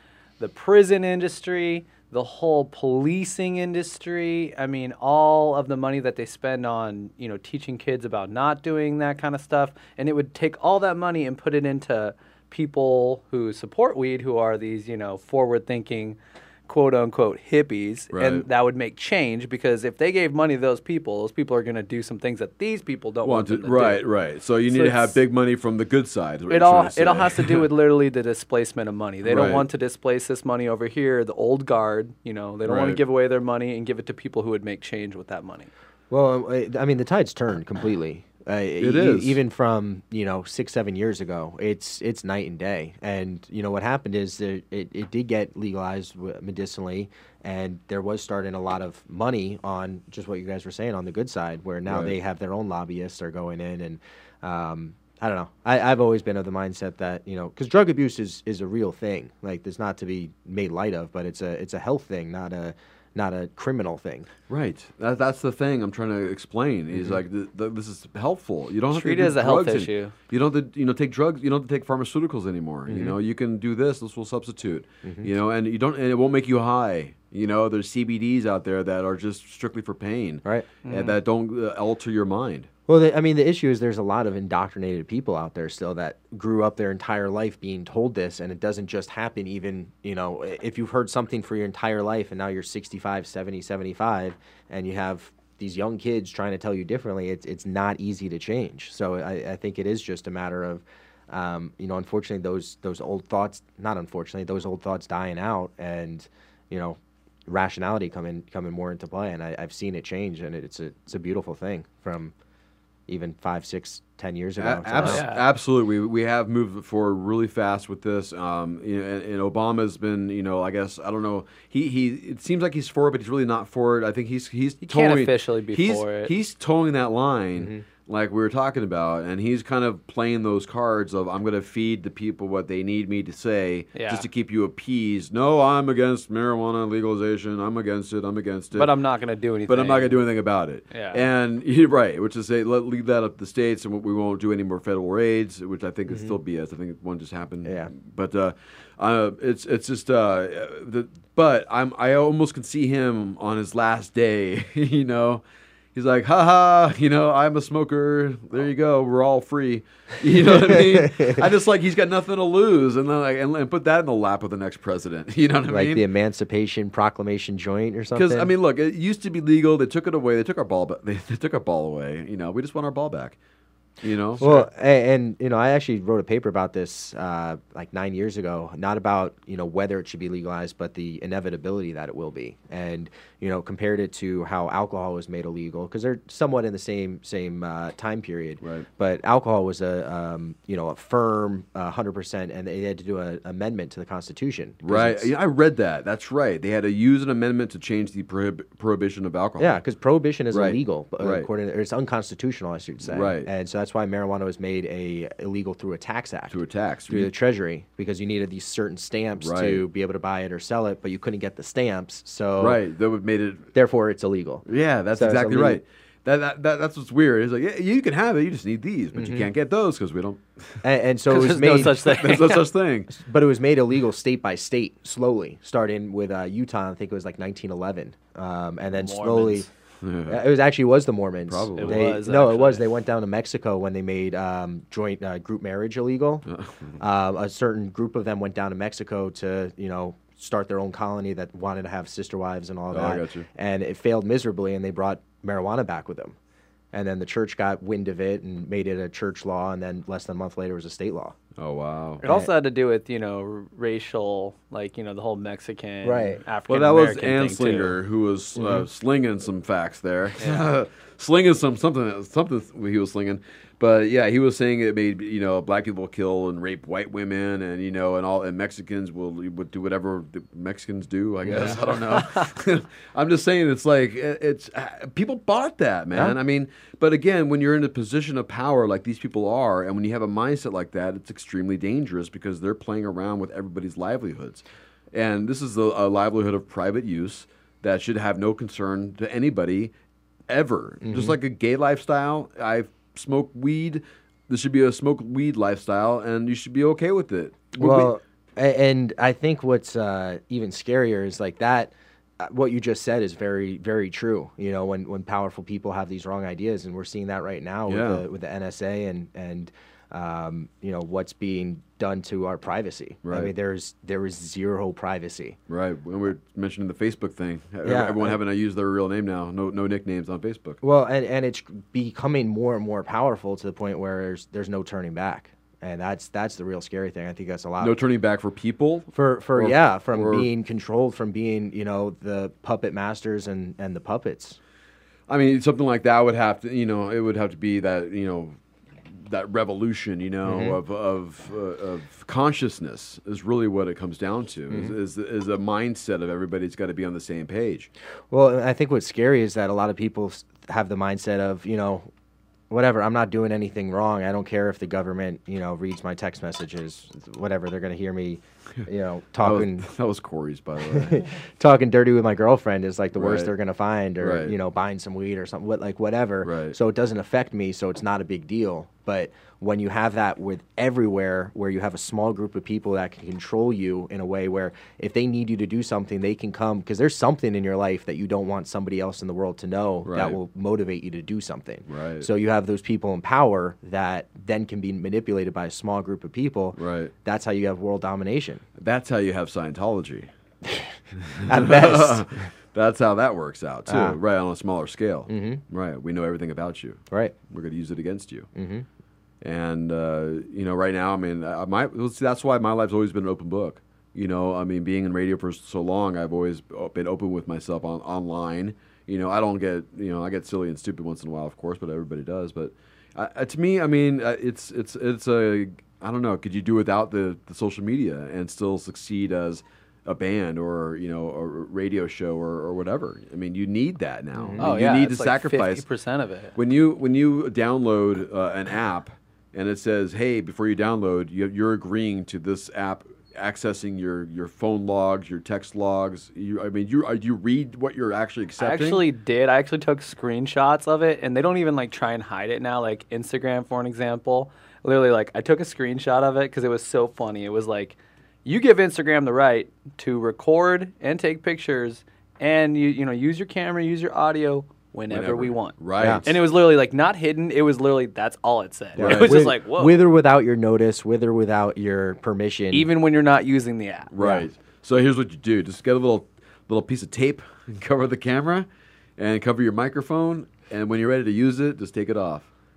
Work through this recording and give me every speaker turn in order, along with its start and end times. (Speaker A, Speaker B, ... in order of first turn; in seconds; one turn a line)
Speaker A: 0.4-24.0
Speaker B: 18.1-18.4
Speaker B: 23.2-27.6
Speaker A: 24.7-25.1
Speaker A: 26.5-35.7
Speaker B: 29.2-29.7
Speaker B: 32.6-33.0
Speaker C: 36.1-64.3
Speaker B: 38.8-39.4
Speaker B: 51.9-52.1
Speaker B: 64.5-82.7
Speaker C: 66.9-67.2
Speaker A: 68.9-70.1
Speaker C: 72.9-73.2
Speaker C: 75.0-75.3
Speaker A: 80.8-81.2
Speaker C: 82.9-112.3
Speaker C: 113.1-115.2
Speaker B: 114.6-138.9
Speaker A: 115.0-115.4
Speaker A: 124.8-126.3
Speaker C: 127.6-127.8
Speaker A: 133.9-134.2
Speaker A: 138.7-140.2
Speaker B: 139.7-155.4
Speaker A: 140.9-141.2
Speaker C: 146.1-146.3
Speaker C: 147.6-147.9
Speaker B: 155.9-166.0
Speaker C: 160.4-161.4
Speaker C: 165.7-168.5
Speaker B: 168.1-173.4
Speaker B: 174.0-174.7
Speaker C: 174.4-195.3
Speaker B: 188.6-188.9
Speaker B: 194.8-199.8
Speaker C: 199.6-212.8
Speaker B: 200.5-201.5
Speaker B: 203.0-203.5
Speaker B: 206.5-207.3
Speaker B: 209.4-209.8
Speaker B: 212.6-213.7
Speaker C: 213.7-215.8
Speaker B: 214.7-220.8
Speaker C: 219.1-219.5
Speaker C: 220.8-222.0
Speaker A: 221.3-222.6
Speaker B: 222.0-223.1
Speaker C: 223.1-229.7
Speaker A: 228.9-229.7
Speaker B: 230.0-230.4
Speaker C: 230.3-236.4
Speaker B: 231.4-232.2
Speaker A: 231.8-232.8
Speaker B: 236.5-236.9
Speaker C: 237.0-246.3
Speaker B: 242.9-243.5
Speaker C: 246.9-251.3
Speaker B: 251.6-252.2
Speaker C: 252.2-252.5
Speaker A: 252.2-257.9
Speaker C: 256.0-256.4
Speaker B: 256.7-289.9
Speaker C: 258.6-258.9
Speaker A: 260.4-260.7
Speaker C: 271.4-271.8
Speaker B: 290.5-298.2
Speaker C: 291.0-291.4
Speaker C: 297.8-315.6
Speaker B: 307.9-308.2
Speaker B: 313.2-313.5
Speaker B: 315.7-320.8
Speaker C: 317.8-318.4
Speaker C: 320.8-327.9
Speaker B: 327.8-330.5
Speaker C: 329.1-334.6
Speaker B: 335.3-338.5
Speaker B: 339.3-347.9
Speaker C: 340.4-340.8
Speaker C: 348.3-352.1
Speaker C: 352.7-359.9
Speaker B: 359.4-361.2
Speaker C: 360.9-388.6
Speaker B: 363.1-363.5
Speaker B: 364.2-364.5
Speaker B: 366.4-366.8
Speaker B: 380.0-380.4
Speaker B: 381.9-382.3
Speaker B: 386.8-387.1
Speaker B: 388.8-390.3
Speaker B: 391.3-398.5
Speaker C: 391.5-392.2
Speaker C: 393.9-394.2
Speaker C: 395.3-395.6
Speaker C: 397.1-397.3
Speaker C: 398.5-398.9
Speaker B: 399.4-425.8
Speaker C: 424.3-424.8
Speaker A: 424.6-426.5
Speaker B: 426.5-439.0
Speaker A: 438.6-460.0
Speaker B: 455.1-456.3
Speaker C: 456.0-456.2
Speaker B: 459.0-459.5
Speaker C: 459.0-462.9
Speaker A: 462.7-464.1
Speaker B: 464.1-472.5
Speaker C: 464.2-464.4